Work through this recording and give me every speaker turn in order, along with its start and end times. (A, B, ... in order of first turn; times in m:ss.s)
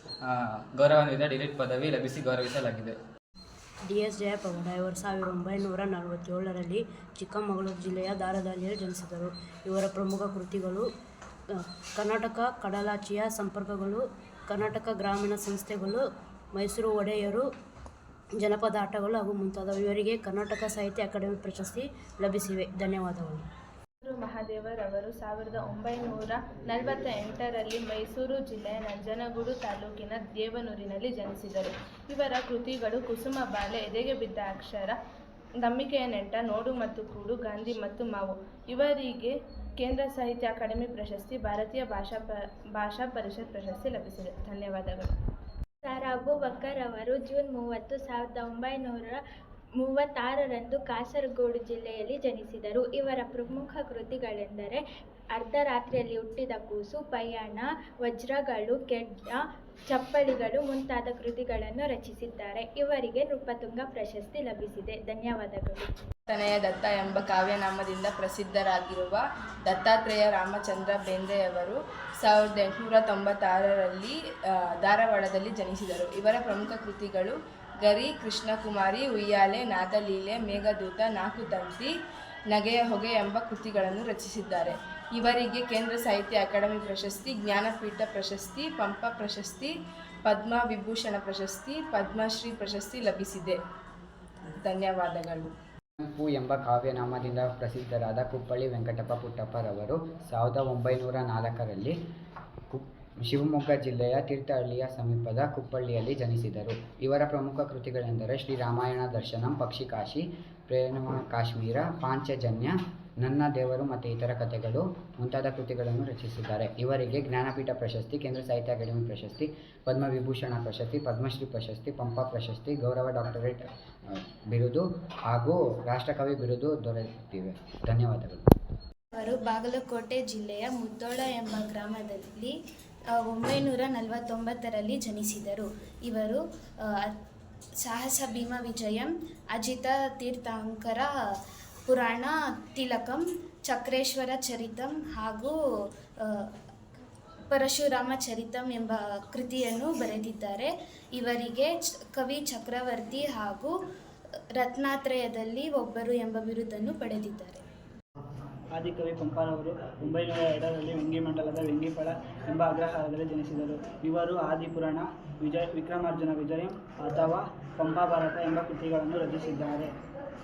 0:00.2-0:03.0 A
0:03.9-0:10.9 B
0:11.5-0:17.5 B
0:18.4-0:23.4 B
0:24.0-0:35.0 C
0:35.6-0:45.1 C
0:45.8-0:49.2 D
0:49.8-0:54.8 D
0:55.4-1:05.9 D
1:06.3-1:21.9 E
1:22.5-1:33.6 E
1:34.6-1:35.5 E
1:36.0-1:42.0 F
1:42.7-2:08.5 F
2:09.2-2:12.5 G
2:13.2-2:17.1 G
2:17.8-2:21.1 G
2:21.9-2:25.5 G
2:26.2-2:26.5 G
2:27.5-2:33.7 G
2:34.6-2:37.6 G
2:38.7-2:49.9 H